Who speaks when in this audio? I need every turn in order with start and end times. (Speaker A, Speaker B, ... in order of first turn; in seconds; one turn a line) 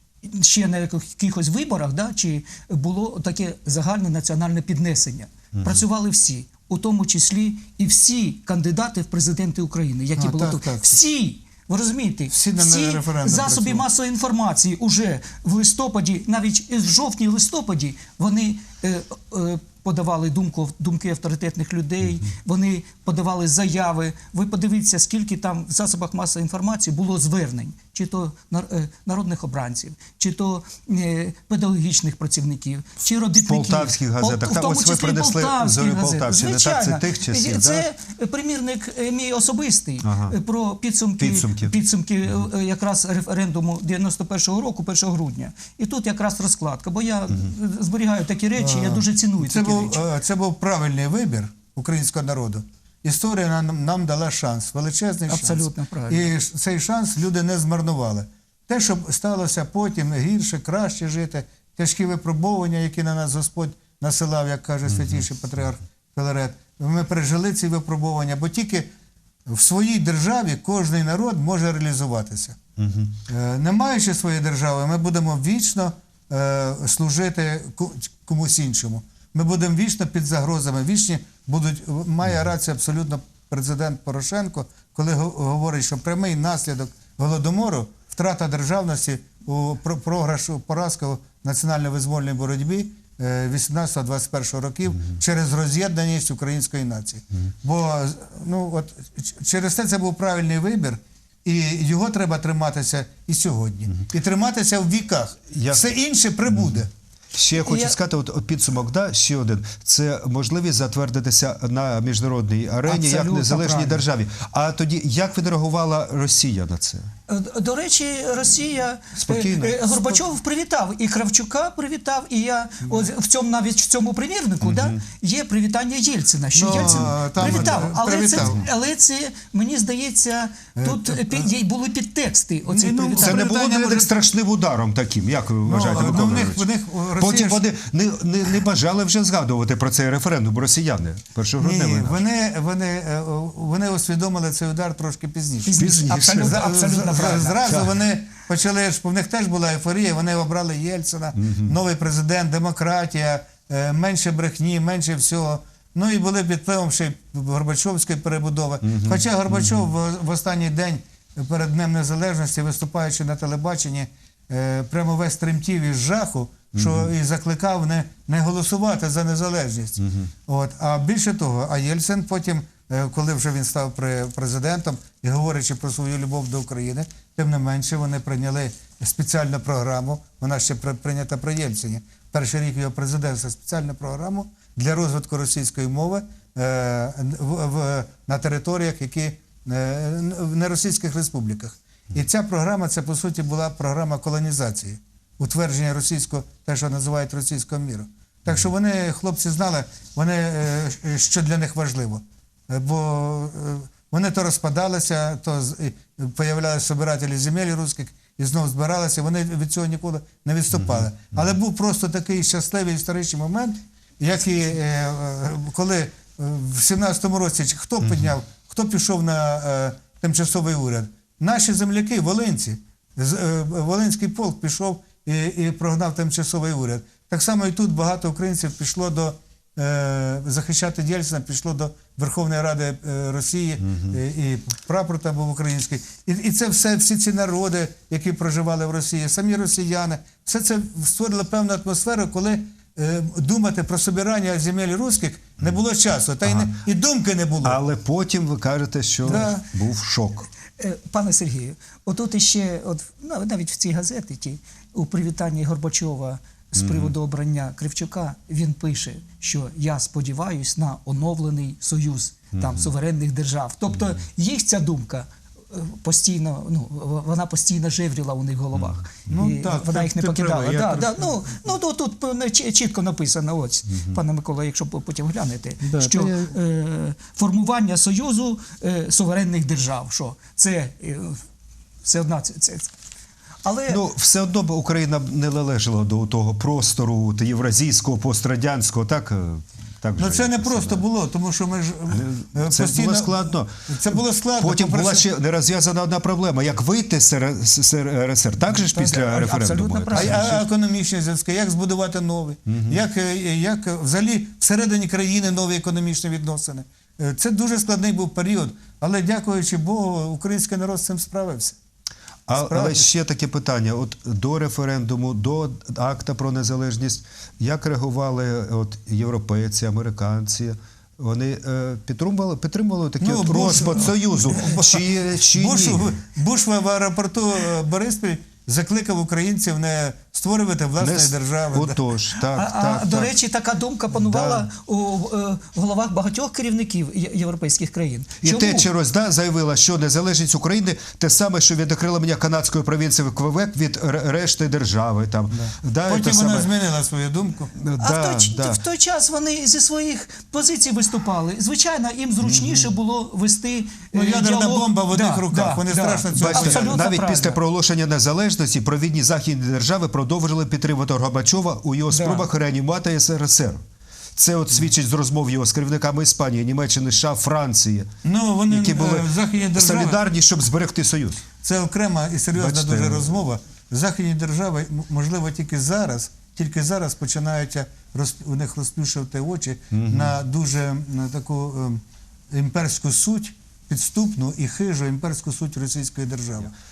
Speaker A: 0.2-50.0
Speaker B: 5.5-5.8
Speaker C: 10.2-11.0
Speaker C: 12.3-13.8
Speaker B: 33.5-37.9
Speaker B: 40.0-40.4
Speaker B: 41.2-41.7
Speaker C: 48.6-68.9
Speaker A: 55.3-56.3
Speaker B: 64.9-65.2
Speaker C: 69.5-72.6
Speaker B: 72.8-73.2
Speaker C: 73.3-106.9
Speaker B: 105.5-105.8
Speaker B: 107.3-117.1
Speaker A: 107.6-108.0
Speaker A: 112.9-114.0
Speaker A: 117.3-133.5
Speaker B: 119.2-120.2
Speaker B: 124.6-125.0
Speaker C: 126.5-128.6
Speaker B: 126.8-127.6
Speaker C: 130.8-131.5
Speaker C: 132.7-134.2
Speaker B: 133.2-142.2
Speaker C: 135.7-137.7
Speaker C: 141.6-247.8
Speaker A: 145.7-147.6
Speaker B: 145.8-146.6
Speaker B: 147.7-147.9
Speaker B: 151.3-151.8
Speaker B: 158.8-159.9
Speaker B: 166.8-167.1
Speaker B: 210.7-211.5
Speaker B: 218.0-218.3
Speaker B: 246.4-246.7
Speaker B: 247.6-250.5
Speaker A: 249.3-249.6
Speaker C: 249.3-249.6
Speaker A: 250.8-281.4
Speaker B: 256.8-257.1
Speaker B: 262.6-262.9
Speaker C: 269.3-271.6
Speaker C: 275.8-276.6
Speaker A: 282.0-282.9
Speaker A: 283.6-284.0
Speaker B: 283.9-291.0
Speaker C: 290.2-295.3
Speaker B: 292.1-300.6
Speaker A: 298.7-300.6
Speaker C: 300.1-311.8
Speaker B: 302.7-303.0
Speaker B: 312.5-326.2
Speaker C: 312.5-313.1
Speaker C: 323.2-332.0
Speaker B: 331.0-333.3
Speaker A: 332.4-338.9
Speaker B: 334.1-334.7
Speaker B: 338.4-346.7
Speaker C: 345.5-347.7
Speaker B: 347.8-348.8
Speaker A: 348.0-357.6
Speaker B: 352.4-352.9
Speaker C: 354.1-357.0
Speaker B: 356.3-363.8
Speaker A: 362.1-362.5
Speaker B: 364.4-368.1
Speaker C: 368.2-370.2
Speaker B: 368.7-371.4
Speaker C: 371.6-386.7
Speaker B: 372.5-373.4
Speaker B: 379.9-380.4